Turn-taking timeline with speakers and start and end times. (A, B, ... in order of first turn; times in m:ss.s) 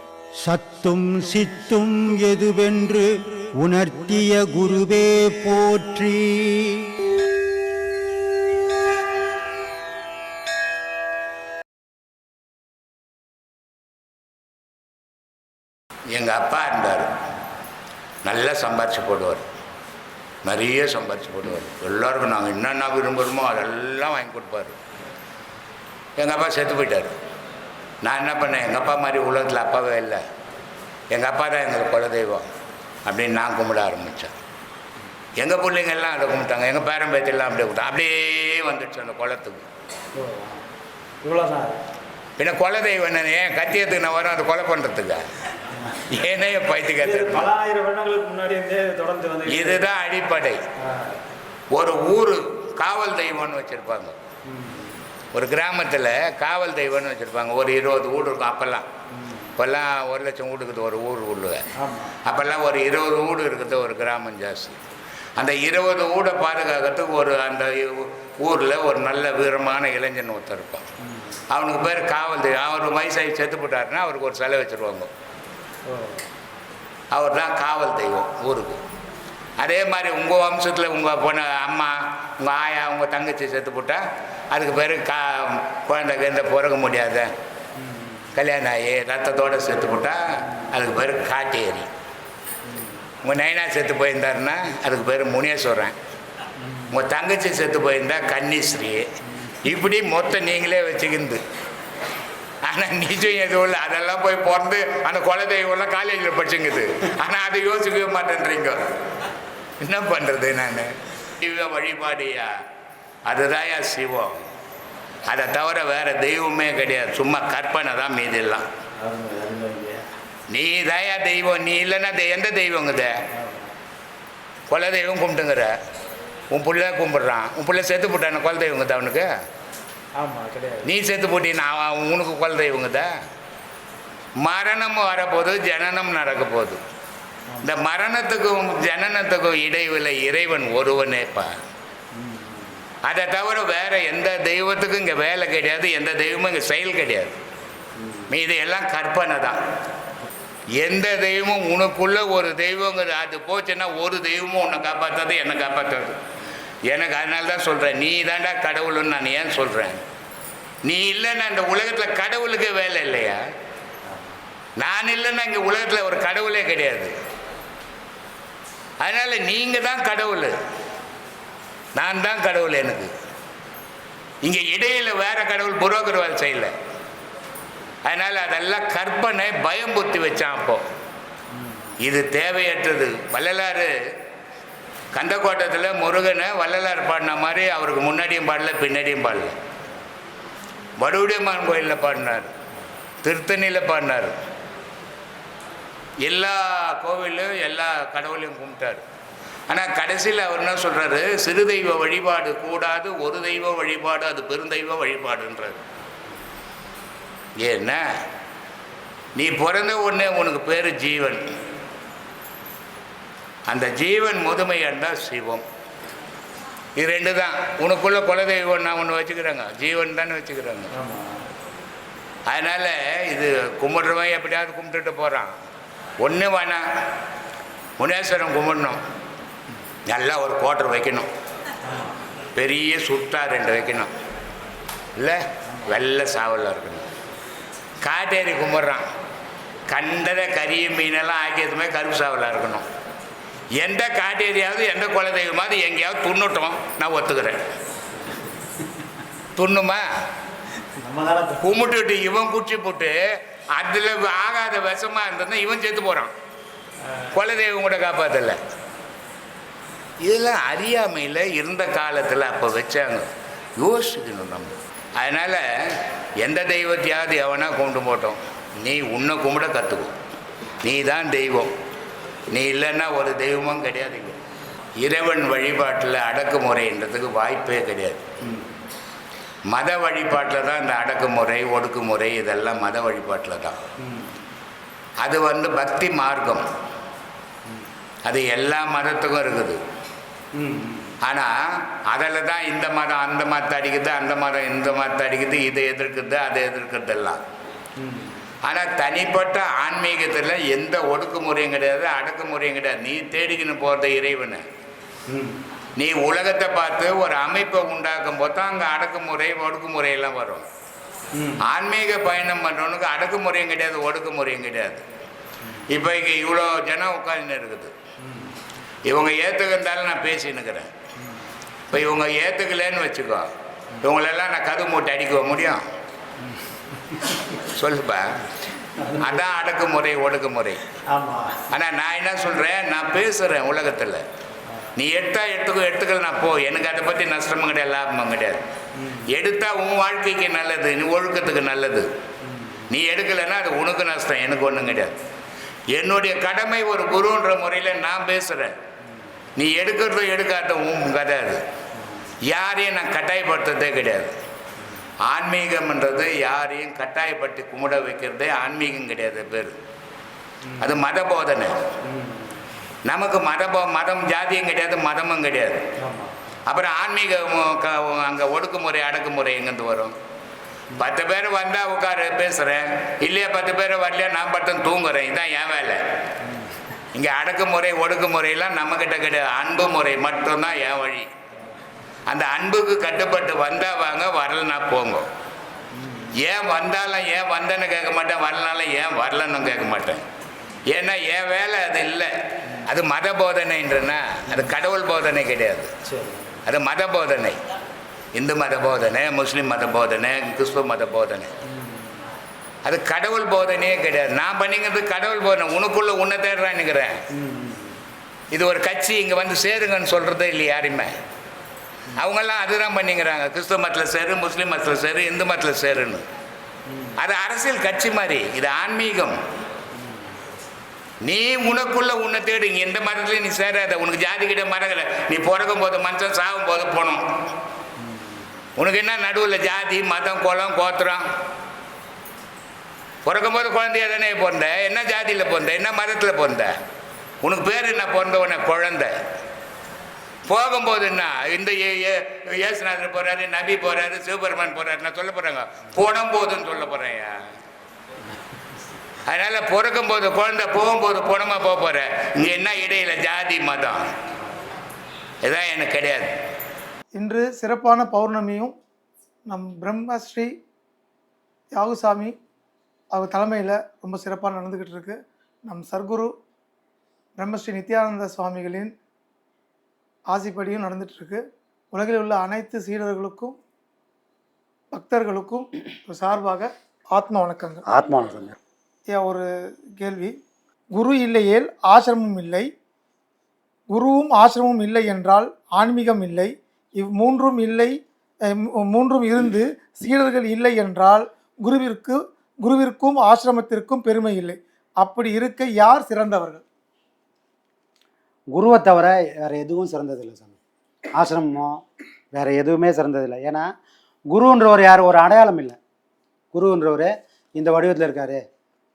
0:00.4-0:06.9 A
0:16.1-0:17.2 B
0:18.2-0:19.5 B
0:20.4-0:24.8 B
0:26.2-0:27.2 B
0:28.0-0:30.2 B
0:31.1-0:32.5 B
0:33.1-0:34.4 B
0:35.4-0:39.6 B
0:40.2-0:40.6 C
0:41.2-0:41.8 C
0:42.4-0:45.2 B
0:45.9-0:47.5 B
0:47.0-0:49.8 C
0:49.5-0:50.6 B
0:51.7-0:54.2 B
0:54.5-0:54.8 C
0:55.3-0:58.9 B
0:59.2-0:59.5 C
0:59.6-1:04.8 B
1:05.4-1:10.9 B
1:11.5-1:15.1 B
1:17.1-1:18.8 B
1:19.6-1:27.3 B
1:28.3-1:31.9 B
1:33.2-1:36.0 B
1:36.9-1:41.4 B
1:42.6-1:49.0 B
1:49.8-1:52.5 B
1:53.2-1:54.5 B
1:55.3-1:58.7 B
1:59.0-2:00.0 C
2:00.5-2:03.2 B
2:04.7-2:05.7 B
2:06.5-2:09.3 B
2:10.2-2:10.9 C
2:10.8-2:13.1 B
2:14.4-2:16.8 B
2:17.6-2:21.5 B
2:23.0-2:27.4 B
2:28.3-2:29.6 B
2:30.8-2:36.2 B
2:36.9-2:40.0 B
2:40.8-2:43.4 B
2:44.8-2:47.1 B
2:49.0-2:50.6 B
2:52.0-2:53.1 B
2:54.4-2:56.8 B
2:58.0-3:00.8 B
3:02.0-3:03.9 B
3:05.2-3:09.6 B
3:11.0-3:12.5 B
3:13.2-3:14.4 B
3:16.2-3:19.0 B
3:19.7-3:25.8 B
3:27.6-3:28.0 B
3:29.4-3:31.4 B
3:33.7-3:35.6 B
3:37.0-3:40.9 B
3:42.5-3:45.5 B
3:46.2-3:46.8 B
3:48.0-3:49.0 B
3:50.1-3:51.3 B
3:52.5-3:54.1 B
3:55.2-3:57.1 B
3:58.0-3:59.0 B
3:59.9-4:02.8 B
4:03.8-4:07.6 B
4:09.6-4:10.0 B
4:11.0-4:11.7 C
4:11.6-4:13.2 B
4:13.7-4:16.3 B
4:17.3-4:18.6 B
4:20.2-4:30.2 B
4:30.8-4:31.7 B
4:32.5-4:34.4 B
4:35.0-4:38.3 B
4:39.7-4:43.8 B
4:45.2-4:46.7 B
4:48.2-4:49.8 B
4:50.6-4:51.1 C
4:51.2-4:57.5 B
4:58.0-4:58.3 C
4:58.6-5:04.6 B
5:05.3-5:05.6 C
5:06.0-5:10.7 B
5:11.6-5:15.0 B
5:15.9-5:17.9 B
5:19.1-5:20.9 B
5:21.9-5:23.5 B
5:24.0-5:25.8 B
5:27.6-5:28.4 B
5:29.0-5:30.9 B
5:31.1-5:31.5 C
5:31.7-5:34.2 B
5:35.0-5:42.1 B
5:42.9-5:45.2 B
5:45.9-5:48.8 B
5:49.6-5:51.6 B
5:52.5-5:54.4 B
5:55.2-5:59.8 B
6:00.8-6:01.9 B
6:02.1-6:02.4 C
6:03.1-6:05.9 B
6:06.7-6:10.1 B
6:11.0-6:16.0 B
6:17.1-6:21.3 B
6:22.3-6:25.3 B
6:26.4-6:30.2 B
6:30.9-6:35.9 B
6:36.7-6:37.6 B
6:38.4-6:41.5 B
6:42.8-6:47.2 B
6:47.4-6:47.9 C
6:48.5-6:51.1 B
6:52.2-6:56.2 B
6:56.9-6:57.2 C
6:57.1-6:59.4 B
7:01.2-7:07.2 B
7:08.8-7:11.2 B
7:13.2-7:16.8 B
7:17.4-7:19.2 B
7:20.5-7:27.4 B
7:29.3-7:34.1 B
7:35.4-7:36.3 B
7:37.2-7:38.7 D
7:39.5-7:40.5 D
7:41.7-7:42.4 D
7:43.1-7:46.3 D
7:47.4-7:48.9 D
7:50.3-7:51.4 D
7:51.9-7:53.6 D
7:54.9-7:57.8 D
7:57.9-7:58.6 E
7:59.1-8:00.3 D
8:00.9-8:02.7 D
8:03.9-8:16.6 D
8:18.5-8:20.5 E
8:21.2-8:21.8 E
8:22.4-8:23.6 E
8:24.3-8:25.8 E
8:26.5-8:28.4 E